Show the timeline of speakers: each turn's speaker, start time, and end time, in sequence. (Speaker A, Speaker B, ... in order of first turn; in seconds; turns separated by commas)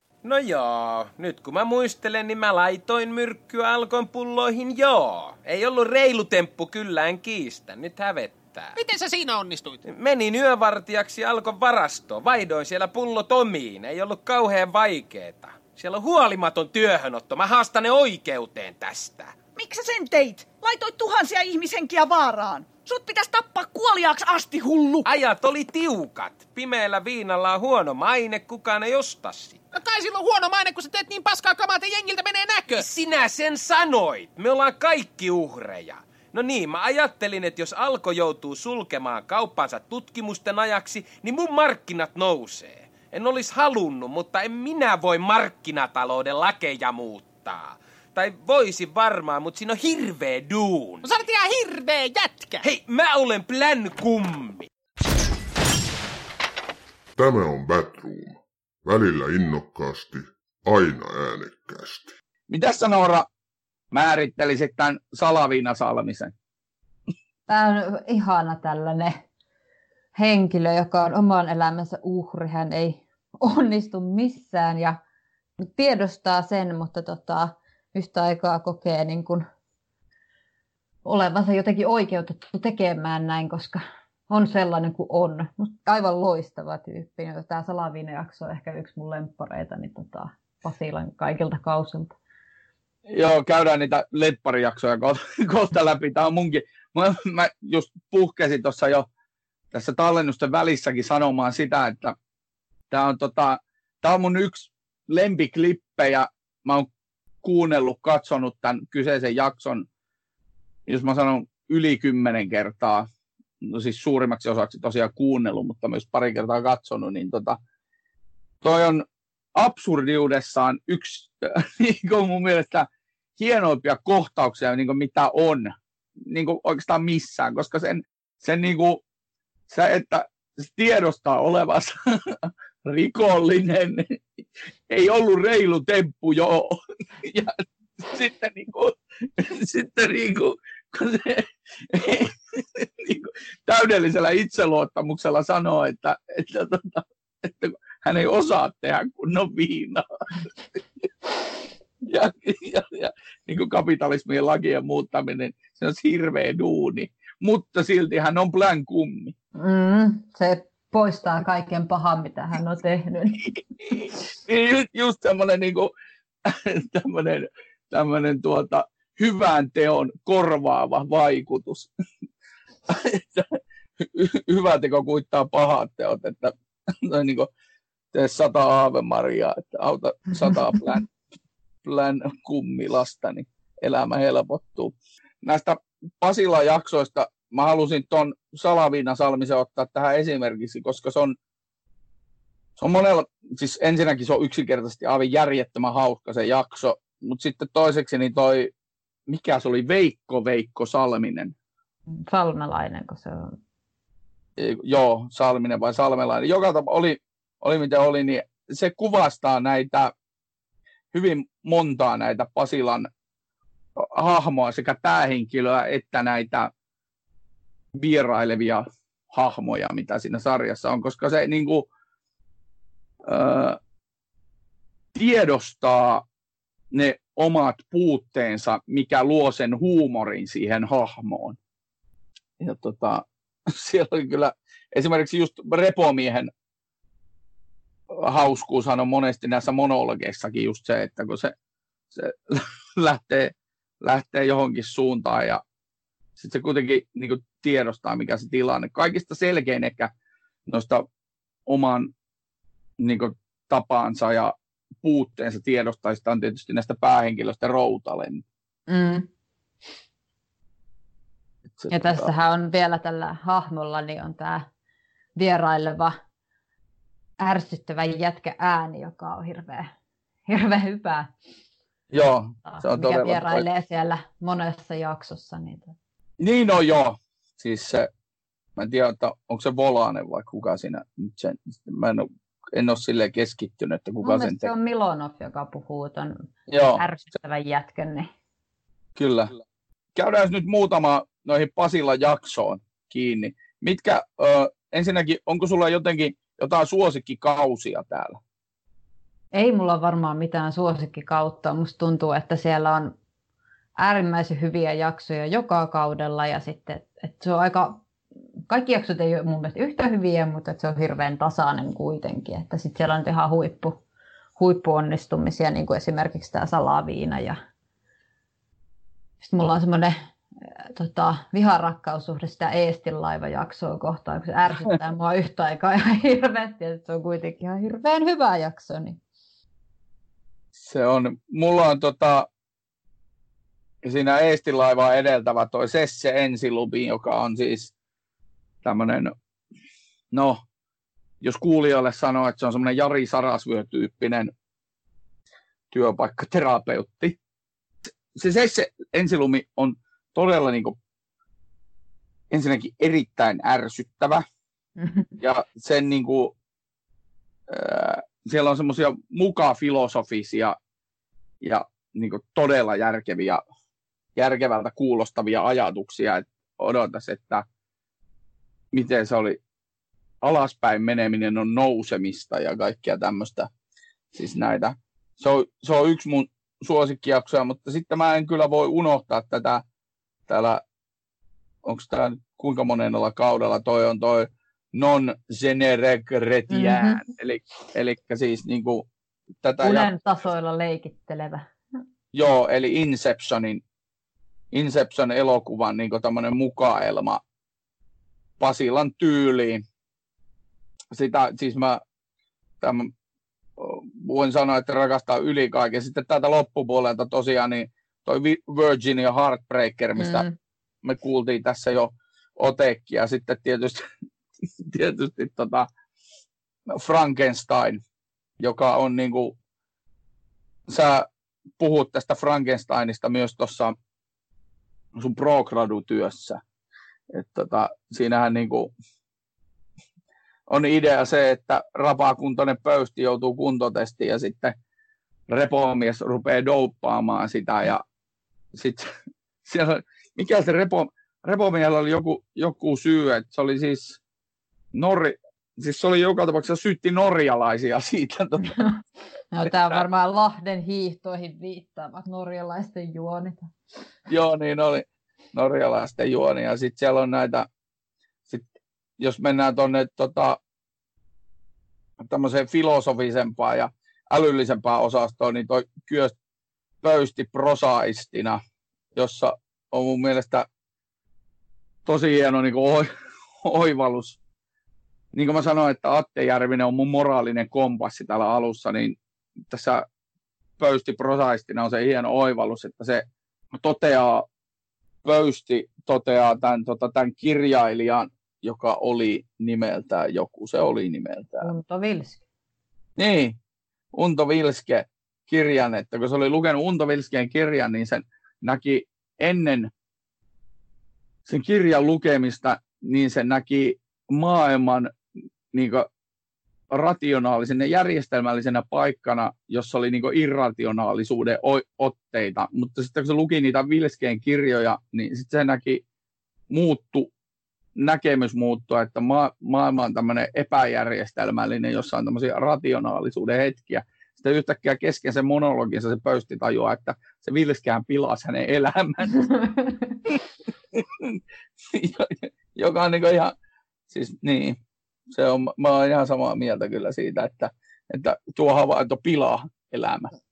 Speaker A: 0.2-8.8, Speaker B: 8.8-9.8, Speaker A: 9.9-19.4, Speaker C: 19.6-25.1, Speaker A: 25.0-29.6, Speaker B: 29.8-32.8, Speaker A: 32.7-51.1, Speaker B: 51.0-52.6, Speaker A: 52.6-54.7, Speaker D: 57.2-62.1, Speaker E: 62.5-63.3, Speaker E: 63.9-66.3, Speaker F: 67.5-69.2, Speaker F: 70.2-75.0, Speaker F: 75.8-79.5, Speaker F: 81.0-92.1, Speaker E: 93.1-99.1, Speaker E: 99.7-102.2, Speaker E: 102.9-106.9, Speaker E: 107.4-109.9, Speaker E: 110.9-113.1, Speaker E: 113.6-117.6, Speaker E: 118.6-119.0, Speaker E: 119.5-125.8, Speaker E: 126.3-129.0, Speaker E: 129.7-134.2, Speaker E: 134.9-150.8, Speaker E: 152.1-159.3, Speaker F: 159.6-163.5, Speaker E: 163.4-165.9, Speaker E: 166.4-171.9, Speaker E: 172.9-177.5, Speaker E: 178.1-181.1, Speaker E: 181.8-191.4, Speaker E: 192.8-198.7, Speaker E: 199.3-201.5, Speaker F: 202.2-203.6, Speaker E: 204.6-210.1, Speaker E: 211.1-213.1, Speaker E: 214.0-216.7, Speaker E: 217.9-221.9, Speaker E: 223.3-223.8, Speaker E: 225.2-226.2, Speaker E: 226.9-231.6, Speaker E: 232.6-236.5, Speaker E: 238.2-241.5, Speaker E: 242.1-245.6, Speaker E: 246.4-250.1, Speaker E: 250.7-251.1, Speaker E: 251.7-252.1, Speaker E: 253.0-258.4, Speaker F: 258.9-259.3, Speaker E: 261.8-262.3, Speaker F: 261.9-264.7, Speaker F: 265.4-266.2, Speaker F: 267.4-269.9, Speaker F: 270.5-271.3, Speaker E: 272.1-273.6, Speaker F: 272.7-275.9, Speaker E: 276.4-278.1, Speaker E: 278.8-284.7, Speaker F: 284.2-286.4, Speaker E: 286.7-287.0, Speaker F: 287.0-288.3, Speaker E: 289.2-289.6, Speaker E: 290.2-298.4, Speaker F: 299.5-303.1, Speaker F: 304.0-308.0, Speaker F: 308.7-314.0, Speaker F: 314.6-317.6, Speaker F: 319.4-320.1, Speaker F: 320.9-329.2, Speaker E: 330.8-332.5, Speaker E: 334.0-337.9, Speaker E: 338.8-339.3, Speaker E: 340.3-340.6, Speaker E: 341.4-344.5, Speaker E: 345.9-347.4, Speaker E: 348.3-351.0, Speaker E: 352.5-354.4, Speaker F: 355.0-355.3, Speaker E: 355.4-356.5, Speaker E: 357.7-360.8, Speaker E: 361.6-363.6, Speaker E: 364.4-367.6, Speaker E: 368.9-369.6, Speaker E: 370.4-373.7, Speaker E: 374.3-379.8, Speaker E: 380.5-380.8, Speaker E: 381.9-389.1, Speaker F: 386.7-387.2, Speaker E: 389.6-390.1, Speaker F: 389.8-391.6, Speaker E: 392.3-393.8, Speaker E: 394.7-397.4, Speaker E: 398.6-399.8, Speaker E: 401.1-402.0, Speaker E: 402.8-403.1, Speaker E: 403.8-410.5, Speaker F: 410.2-410.5, Speaker E: 411.0-414.0, Speaker E: 414.8-415.9, Speaker E: 416.9-418.0, Speaker E: 418.6-419.5, Speaker E: 420.9-421.3, Speaker E: 421.8-423.9, Speaker E: 425.2-426.6, Speaker E: 427.3-428.9, Speaker E: 430.7-434.8, Speaker E: 435.5-438.0, Speaker E: 438.8-439.1, Speaker E: 439.7-444.2, Speaker E: 444.9-448.7, Speaker F: 449.5-453.7, Speaker E: 449.7-450.0, Speaker E: 454.3-457.7, Speaker E: 459.2-460.6, Speaker E: 462.2-466.3, Speaker E: 467.0-468.6, Speaker E: 469.2-470.7, Speaker E: 472.1-473.1, Speaker E: 473.6-474.4, Speaker E: 475.3-479.2, Speaker E: 479.7-480.1, Speaker E: 480.8-484.4, Speaker E: 485.2-491.7, Speaker F: 491.6-492.4, Speaker E: 493.2-493.6, Speaker E: 494.1-499.9, Speaker E: 501.5-505.1, Speaker E: 505.7-506.1, Speaker E: 506.9-516.0, Speaker E: 516.7-517.3, Speaker E: 518.0-529.6, Speaker F: 529.6-529.9, Speaker E: 530.9-531.4, Speaker E: 531.9-533.5, Speaker E: 534.1-534.8, Speaker E: 535.3-540.3